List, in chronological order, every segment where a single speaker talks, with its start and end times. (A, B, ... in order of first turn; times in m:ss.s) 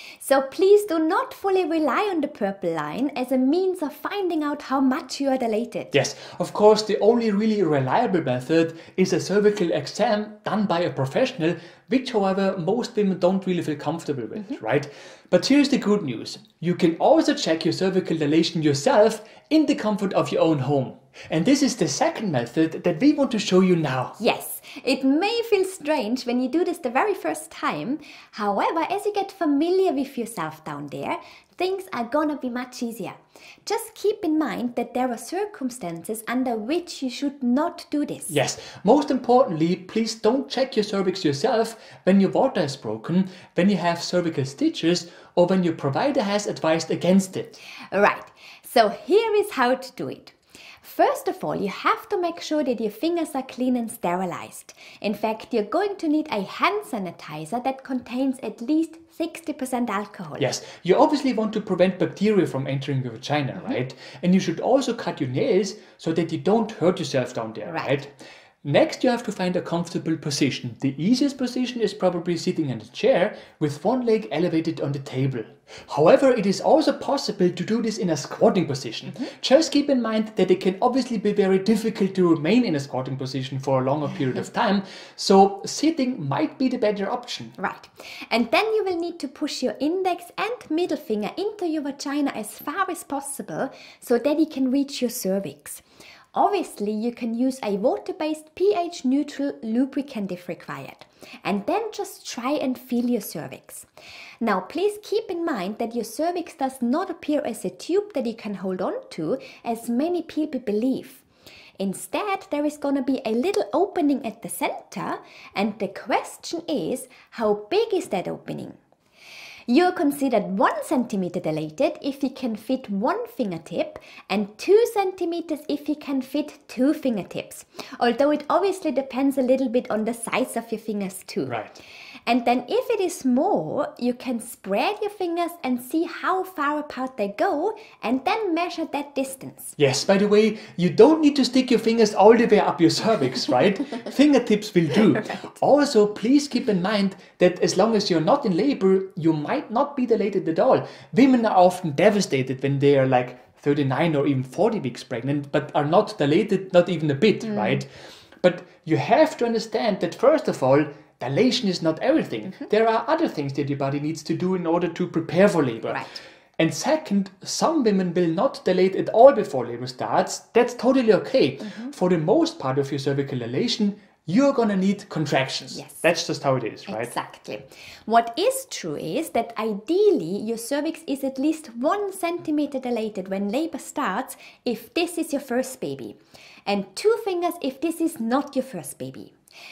0:00.2-0:05.9 A
0:05.9-0:24.2 B
0:24.2-0:38.4 A
0:38.3-0:47.6 B
0:47.9-1:00.5 A
1:00.4-1:08.1 B
1:07.6-1:08.0 A
1:08.6-1:27.6 B
1:27.6-1:35.8 A
1:36.3-1:43.9 A
1:44.4-1:51.2 A
1:51.8-1:58.8 A
1:59.7-2:11.6 A
2:11.4-2:11.8 B
2:12.3-2:19.8 A
2:19.8-2:37.9 B
2:38.4-2:46.0 B
2:45.8-2:46.2 A
2:46.6-2:57.1 B
2:55.7-2:56.0 A
2:56.9-3:09.3 A